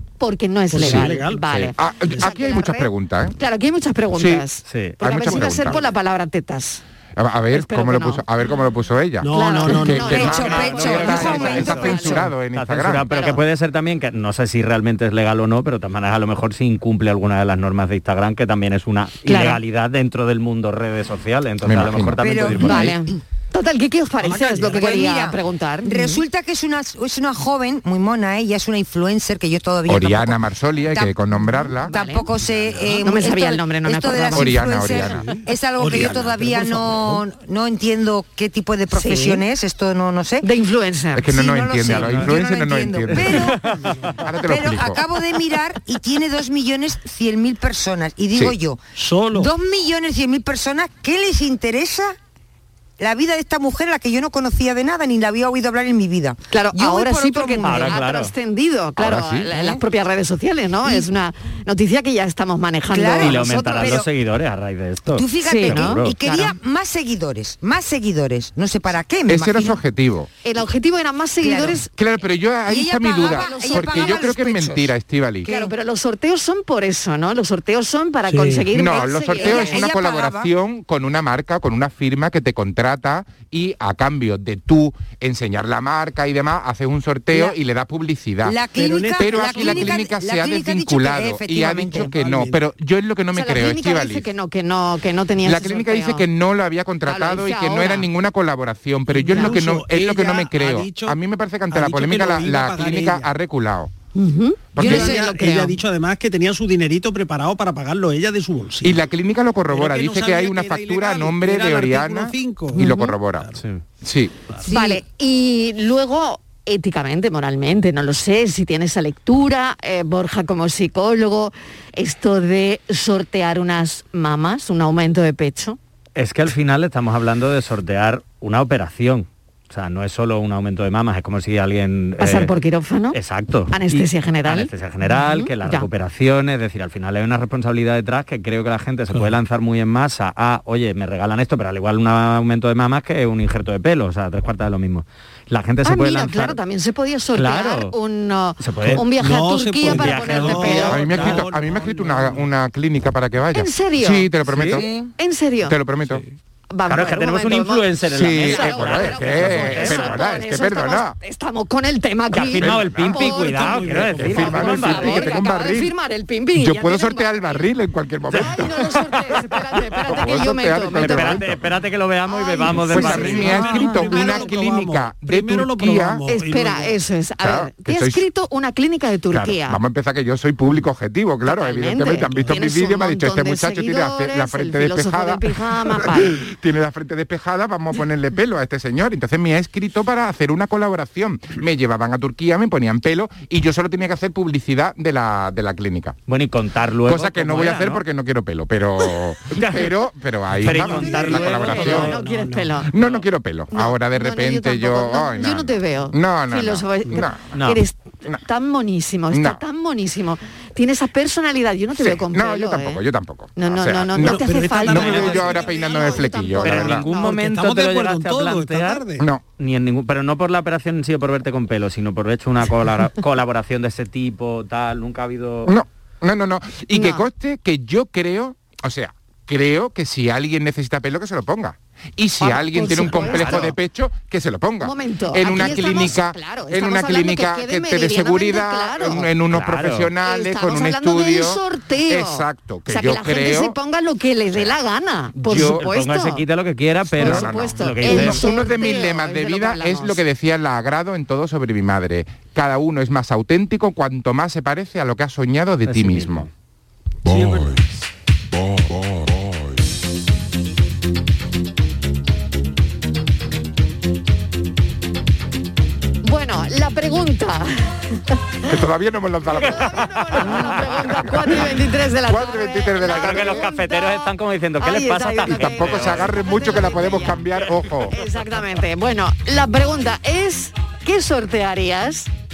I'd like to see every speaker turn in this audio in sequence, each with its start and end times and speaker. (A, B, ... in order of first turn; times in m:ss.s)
0:00.2-0:06.8 A
0:00.7-0:02.3 B
0:00.8-0:01.1 C
0:01.8-0:03.4 C
0:04.2-0:04.4 C
0:04.7-0:05.0 D
0:05.0-0:05.8 C
0:05.3-0:05.8 B
0:07.2-0:13.0 C
0:07.5-0:08.2 A
0:09.2-0:10.4 B
0:09.3-0:12.3 A
0:10.1-0:12.2 E
0:10.7-0:12.0 D
0:12.5-0:22.9 D
0:13.1-0:13.4 A
0:19.3-0:19.6 A
0:21.6-0:22.2 C
0:22.2-0:23.0 E
0:22.6-0:26.2 A
0:24.2-0:25.0 B
0:24.7-0:31.2 E
0:29.9-0:31.9 C
0:31.9-0:32.3 A
0:31.9-0:40.5 E
0:32.6-0:32.9 B
0:33.0-0:34.9 A
0:34.4-0:35.2 C
0:35.0-0:37.2 B
0:38.9-0:39.4 A
0:40.4-0:41.5 A
0:41.2-0:43.4 C
0:41.3-0:43.5 E
0:41.9-0:42.3 D
0:41.9-0:42.3 B
0:43.1-0:43.8 D
0:43.8-0:44.1 B
0:44.2-0:45.0 C
0:44.5-0:48.8 E
0:49.0-0:49.5 B
0:49.3-0:52.2 E
0:53.0-0:58.0 E
0:56.5-1:04.0 A
0:57.6-0:58.3 D
0:59.0-0:59.5 C
0:59.5-0:59.8 E
1:00.8-1:01.1 E
1:02.9-1:04.1 E
1:03.2-1:06.2 D
1:05.1-1:09.8 E
1:05.4-1:06.5 A
1:09.3-1:10.3 C
1:10.4-1:11.9 A
1:11.4-1:11.8 E
1:11.9-1:15.5 C
1:12.7-1:15.7 E
1:13.1-1:14.4 A
1:15.5-1:19.8 A
1:18.3-1:18.7 B
1:18.7-1:28.6 C
1:18.9-1:20.5 E
1:27.3-1:27.6 E
1:28.4-1:32.1 E
1:28.8-1:30.0 B
1:29.1-1:34.3 C
1:31.9-1:32.6 B
1:33.3-1:36.2 A
1:35.4-1:43.9 C
1:37.1-1:38.1 A
1:39.1-1:41.2 B
1:41.7-1:43.3 B
1:44.2-1:45.8 A
1:44.8-1:45.1 C
1:44.8-1:49.0 B
1:44.8-1:45.3 E
1:48.8-1:53.5 C
1:49.7-1:53.6 B
1:54.0-1:54.3 C
1:54.7-2:05.8 A
2:06.2-2:12.5 D
2:12.2-2:13.2 A
2:13.1-2:26.6 D
2:13.7-2:15.9 A
2:25.8-2:31.2 A
2:27.4-2:27.9 D
2:28.6-2:29.0 D
2:28.8-2:32.4 B
2:29.8-2:31.4 D
2:30.9-2:34.8 C
2:33.5-2:34.3 A
2:34.6-2:34.9 D
2:35.2-2:35.8 A
2:35.6-2:36.2 C
2:36.7-2:37.9 A
2:36.9-2:40.2 D
2:38.1-2:41.2 C
2:38.4-2:43.6 A
2:42.3-2:45.3 D
2:42.6-2:43.1 C
2:43.0-2:45.0 B
2:44.2-2:45.9 C
2:44.4-2:47.6 A
2:46.6-2:48.9 C
2:48.3-2:51.4 A
2:50.1-2:51.6 C
2:51.0-2:54.0 D
2:52.3-2:52.8 A
2:52.7-2:56.9 B
2:52.9-2:56.2 C
2:54.1-2:54.4 A
2:56.3-2:59.8 A
2:57.4-2:58.2 C
2:59.3-3:16.2 C
3:01.5-3:06.4 A
3:16.3-3:18.0 D
3:17.0-3:22.2 C
3:19.5-3:19.9 D
3:20.6-3:22.2 D
3:20.6-3:22.9 B
3:21.7-3:22.9 A
3:22.9-3:27.4 C
3:23.7-3:33.0 A
3:27.5-3:27.8 D
3:29.3-3:29.6 C
3:32.0-3:37.0 C
3:33.6-3:37.2 A
3:34.2-3:35.7 B
3:36.6-3:39.0 D
3:37.1-3:39.2 B
3:39.6-3:45.7 D
3:45.7-4:03.8 C
3:46.9-3:47.2 A
3:52.4-3:53.7 A
3:53.2-3:53.7 D
3:53.3-3:53.6 B
3:54.8-3:59.3 A
3:59.5-4:00.1 D
4:00.2-4:06.4 A
4:05.4-4:08.5 D
4:05.5-4:05.8 C
4:07.2-4:16.5 C
4:07.2-4:10.2 A
4:15.9-4:16.5 D
4:17.3-4:17.8 B
4:17.4-4:17.7 C
4:18.7-4:19.5 C
4:26.2-4:28.2 A
4:28.7-4:30.0 C
4:29.6-4:37.4 A
4:30.4-4:30.8 D
4:32.3-4:33.6 C
4:33.1-4:36.3 D
4:35.5-4:38.2 C
4:38.1-4:42.3 A